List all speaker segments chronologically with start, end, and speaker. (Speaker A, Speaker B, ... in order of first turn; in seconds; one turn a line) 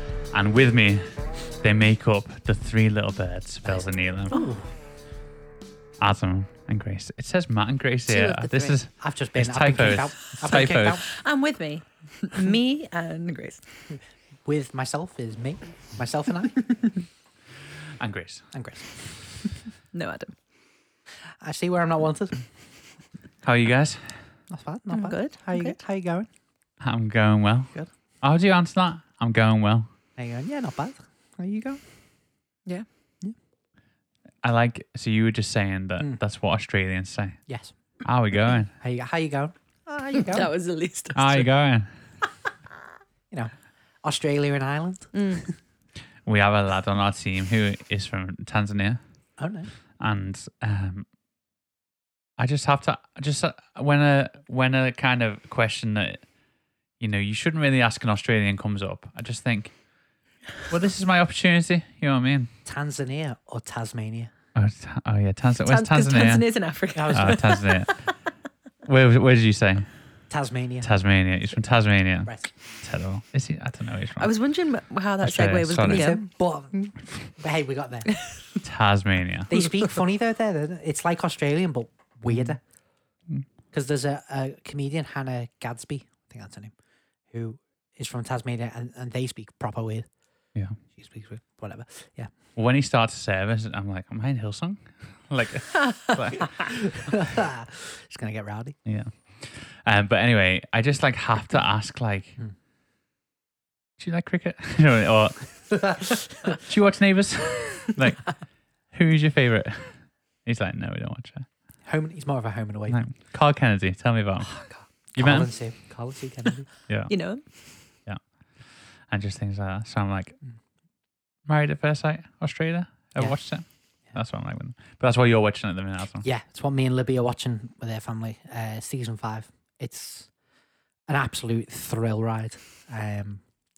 Speaker A: 0.3-4.3
Speaker B: 3.6-4.7
Speaker A: 6.0-11.0
Speaker C: 8.1-8.8
Speaker B: 9.0-11.1
Speaker C: 10.5-13.6
Speaker B: 14.4-16.7
Speaker A: 18.0-18.4
Speaker B: 18.5-19.2
Speaker C: 19.9-20.3
Speaker B: 21.4-22.4
Speaker A: 23.4-24.2
Speaker B: 24.5-26.3
Speaker C: 24.9-25.8
Speaker A: 26.8-29.9
Speaker B: 30.2-31.8
Speaker A: 34.4-37.4
Speaker B: 37.5-37.7
Speaker A: 38.0-38.7
Speaker B: 38.8-40.5
Speaker C: 40.2-41.5
Speaker A: 41.1-41.9
Speaker B: 44.0-45.2
Speaker C: 45.1-45.5
Speaker A: 46.2-49.0
Speaker B: 49.4-49.7
Speaker A: 50.0-51.1
Speaker A: 52.4-56.3
Speaker A: 57.0-59.7
Speaker A: 60.7-62.5
Speaker B: 62.6-64.3
Speaker A: 64.5-66.5
Speaker C: 65.7-68.1
Speaker B: 66.9-67.6
Speaker A: 67.1-67.9
Speaker A: 68.9-69.9
Speaker B: 70.3-70.9
Speaker A: 70.8-74.3
Speaker B: 72.3-72.5
Speaker C: 74.2-76.2
Speaker A: 75.2-76.1
Speaker B: 75.8-78.1
Speaker A: 78.6-79.5
Speaker B: 79.5-82.6
Speaker B: 83.7-86.7
Speaker B: 87.3-90.1
Speaker B: 90.9-92.3
Speaker A: 92.6-96.7
Speaker B: 96.6-98.8
Speaker A: 98.9-102.4
Speaker A: 104.0-105.8
Speaker B: 105.7-106.6
Speaker A: 106.6-108.4
Speaker A: 108.9-111.5
Speaker B: 111.8-113.0
Speaker A: 112.9-115.5
Speaker B: 114.5-116.7
Speaker A: 116.9-117.1
Speaker C: 117.1-117.4
Speaker A: 118.1-120.4
Speaker A: 121.5-126.2
Speaker B: 123.2-123.4
Speaker B: 126.2-130.3
Speaker B: 131.1-133.4